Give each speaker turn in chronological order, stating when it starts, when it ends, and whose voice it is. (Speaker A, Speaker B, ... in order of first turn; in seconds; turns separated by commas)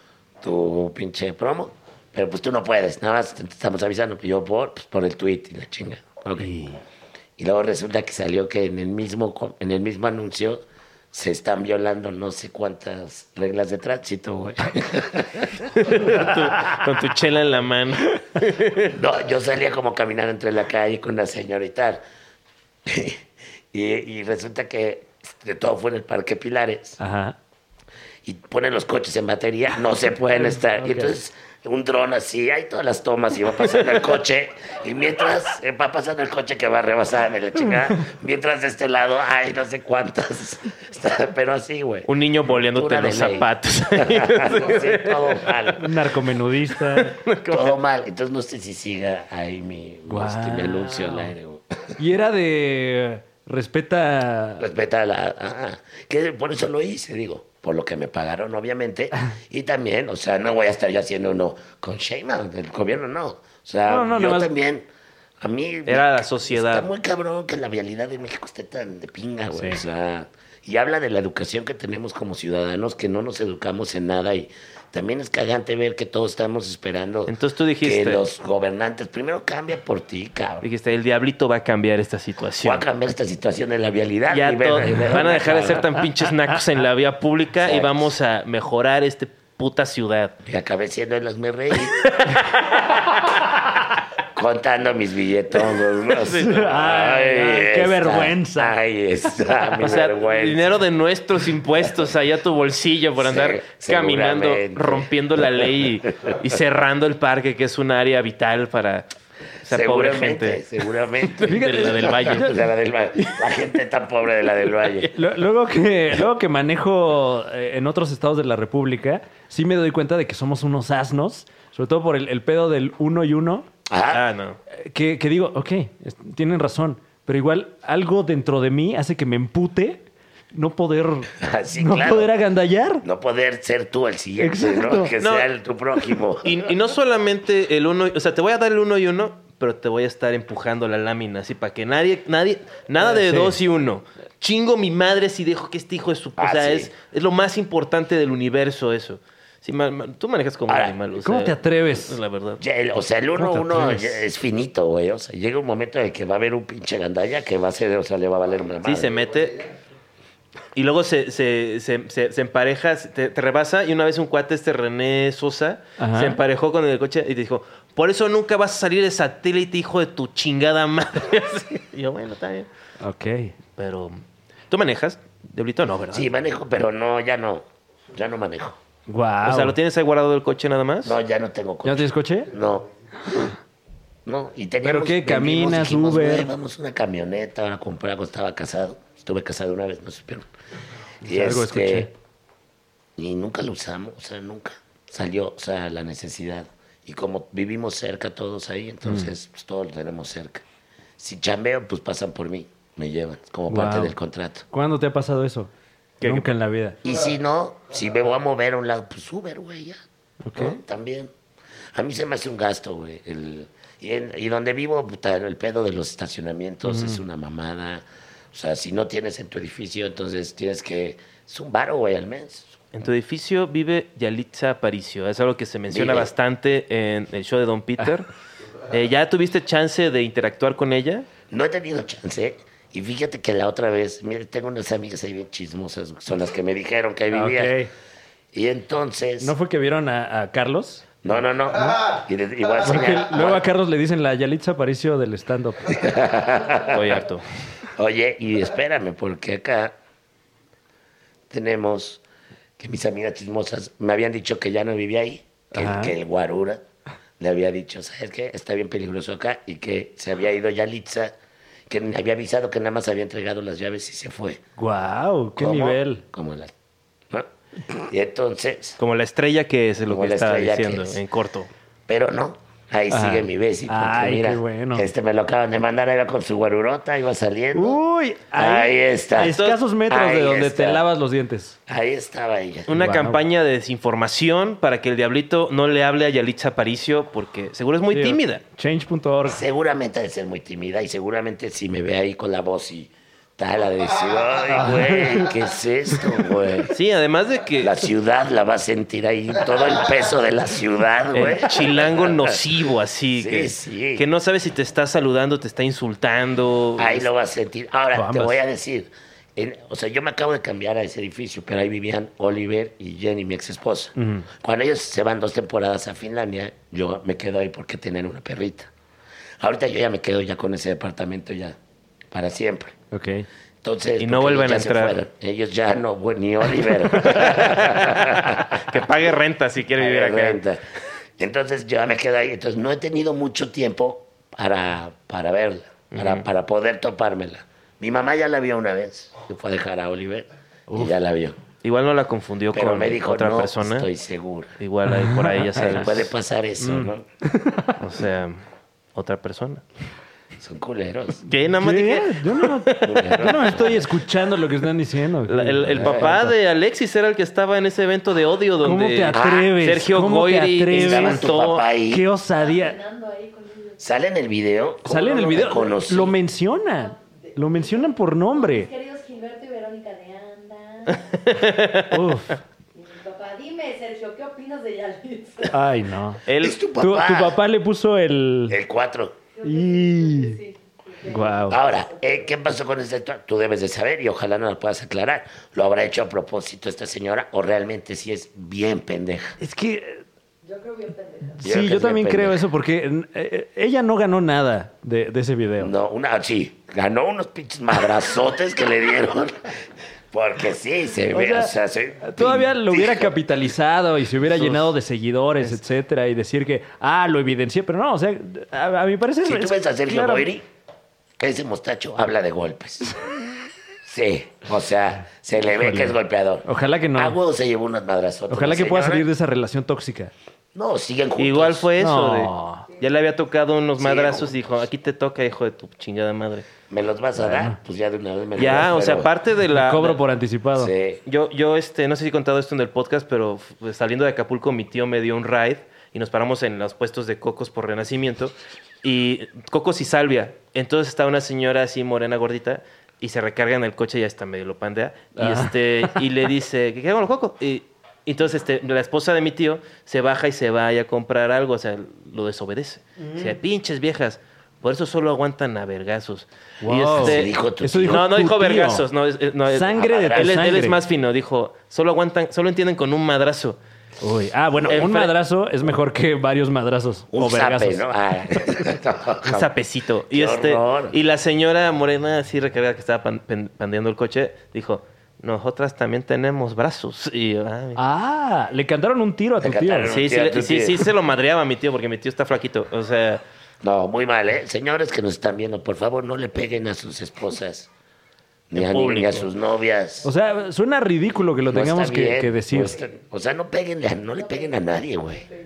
Speaker A: 0.4-6.5, Speaker B: 6.4-6.8, Speaker A: 7.4-15.7, Speaker C: 15.8-18.9, Speaker A: 18.9-22.0, Speaker A: 22.8-27.0, Speaker B: 27.0-27.4, Speaker A: 28.2-45.9, Speaker B: 30.7-31.1, Speaker C: 42.0-45.6, Speaker B: 45.8-47.1, Speaker C: 46.9-47.7, Speaker A: 47.5-52.0, Speaker B: 50.1-51.3, Speaker B: 52.0-54.6, Speaker A: 54.6-64.9, Speaker B: 63.9-64.5, Speaker A: 65.4-80.7, Speaker C: 65.9-66.9, Speaker B: 69.5-69.8, Speaker C: 77.3-78.2, Speaker C: 80.6-82.8, Speaker A: 82.6-86.0, Speaker C: 84.3-90.3, Speaker A: 87.6-88.1, Speaker A: 90.4-92.4, Speaker C: 92.0-92.8, Speaker A: 94.3-100.7, Speaker C: 96.1-96.7, Speaker B: 96.4-98.8, Speaker C: 99.8-109.0, Speaker A: 103.2-105.1, Speaker C: 109.6-110.6, Speaker A: 109.7-115.1, Speaker C: 111.2-112.5, Speaker B: 111.5-112.5, Speaker C: 113.2-113.6, Speaker B: 115.1-123.7, Speaker A: 123.9-124.2, Speaker C: 124.1-124.6, Speaker B: 124.8-133.0, Speaker A: 131.4-132.3, Speaker A: 133.0-136.7, Speaker B: 134.4-135.1, Speaker C: 135.2-135.5, Speaker C: 136.4-152.6, Speaker B: 143.0-143.6, Speaker A: 146.4-146.9, Speaker A: 150.7-151.0, Speaker B: 151.2-152.2, Speaker A: 152.6-159.1, Speaker B: 153.3-154.2, Speaker C: 158.8-159.6, Speaker C: 160.7-172.7, Speaker B: 166.0-166.4, Speaker B: 173.0-173.5, Speaker C: 173.8-176.3, Speaker A: 176.1-178.8, Speaker B: 179.1-179.8, Speaker C: 179.4-181.2, Speaker A: 181.0-182.8, Speaker B: 181.8-182.5, Speaker A: 184.2-190.5, Speaker B: 184.8-186.5, Speaker B: 191.2-192.1, Speaker A: 191.2-192.1, Speaker A: 193.2-200.6, Speaker A: 201.2-204.7, Speaker B: 203.7-204.1, Speaker B: 204.7-205.7, Speaker C: 206.2-206.5, Speaker B: 206.2-207.0, Speaker A: 207.0-210.0, Speaker B: 210.4-210.8, Speaker A: 210.6-211.3, Speaker A: 211.9-222.8, Speaker B: 216.8-217.2, Speaker C: 222.9-228.3, Speaker A: 225.9-226.3, Speaker C: 228.9-231.3, Speaker A: 231.5-237.8, Speaker B: 237.3-237.9, Speaker A: 238.5-239.5, Speaker B: 239.4-241.1, Speaker A: 241.2-243.6, Speaker B: 242.8-246.0, Speaker A: 245.9-247.2, Speaker C: 246.9-247.4, Speaker A: 247.9-249.9, Speaker A: 251.5-252.2, Speaker A: 252.8-256.8, Speaker B: 255.7-256.1, Speaker A: 257.4-261.3, Speaker A: 261.9-264.6, Speaker B: 264.8-266.2, Speaker A: 265.6-266.7, Speaker A: 267.3-269.0, Speaker C: 269.0-271.7, Speaker A: 270.1-271.2, Speaker A: 272.1-278.0, Speaker B: 273.1-275.1, Speaker B: 277.7-281.8, Speaker A: 278.6-279.6, Speaker C: 279.5-279.8, Speaker A: 280.1-281.0, Speaker A: 281.9-282.9, Speaker C: 282.9-288.6, Speaker B: 282.9-283.4, Speaker B: 288.1-289.6, Speaker A: 289.4-296.9, Speaker B: 294.7-295.5, Speaker C: 296.9-298.0, Speaker A: 297.8-302.6, Speaker C: 301.3-307.3, Speaker A: 303.4-304.2, Speaker A: 307.0-318.9, Speaker B: 308.1-308.6, Speaker B: 314.2-314.4, Speaker A: 319.6-321.8, Speaker A: 322.3-322.9, Speaker B: 323.1-323.5, Speaker A: 323.8-328.8, Speaker C: 324.2-325.2, Speaker C: 327.3-328.1, Speaker C: 328.7-330.6, Speaker A: 330.0-330.8, Speaker A: 331.4-341.6, Speaker C: 336.1-336.4, Speaker C: 341.8-344.1, Speaker A: 342.7-344.7, Speaker C: 344.8-346.3, Speaker B: 345.1-346.1, Speaker A: 345.8-347.2, Speaker B: 346.8-348.0, Speaker C: 348.0-348.6, Speaker C: 349.1-349.8, Speaker A: 350.6-351.4, Speaker C: 351.4-353.8, Speaker B: 351.8-356.5, Speaker A: 353.0-354.1, Speaker C: 355.5-361.8, Speaker A: 355.9-356.3, Speaker B: 358.8-361.4, Speaker A: 359.3-359.7, Speaker A: 360.9-362.2, Speaker B: 362.1-363.0, Speaker D: 362.5-364.0, Speaker A: 364.0-366.4, Speaker B: 365.0-368.9, Speaker D: 366.9-371.2, Speaker C: 371.1-372.2, Speaker B: 372.1-372.6, Speaker D: 372.9-375.8, Speaker B: 375.7-376.4, Speaker C: 376.4-376.8, Speaker A: 376.6-377.6, Speaker B: 376.9-378.8, Speaker A: 378.7-379.4, Speaker D: 379.5-382.6, Speaker B: 379.6-380.6, Speaker B: 381.2-381.8, Speaker A: 381.7-389.6, Speaker B: 389.6-390.2, Speaker D: 390.6-391.6, Speaker B: 391.6-395.9, Speaker A: 391.6-392.6, Speaker A: 395.8-399.7, Speaker A: 400.3-403.3, Speaker B: 401.3-410.5, Speaker C: 404.6-404.9, Speaker A: 409.4-410.6, Speaker A: 411.4-413.1, Speaker A: 414.0-419.3, Speaker B: 415.6-417.4, Speaker B: 418.5-420.3, Speaker A: 420.7-421.9, Speaker C: 421.4-426.7, Speaker B: 422.0-422.8, Speaker A: 424.0-424.6, Speaker A: 426.9-429.3, Speaker B: 427.4-427.8, Speaker C: 428.6-430.2, Speaker B: 429.7-430.9, Speaker A: 430.8-431.2, Speaker C: 431.2-463.8, Speaker B: 445.4-446.2, Speaker B: 456.8-459.0, Speaker A: 457.2-458.2, Speaker B: 459.7-461.0, Speaker A: 459.9-460.8, Speaker B: 464.2-468.0, Speaker C: 464.9-465.3, Speaker A: 467.3-469.7, Speaker C: 469.4-478.0, Speaker A: 470.3-471.2, Speaker B: 477.9-480.1, Speaker A: 479.6-481.1, Speaker C: 480.1-483.4, Speaker A: 483.8-487.9, Speaker A: 488.7-490.3, Speaker C: 488.7-489.5, Speaker B: 490.2-493.0, Speaker A: 491.7-495.5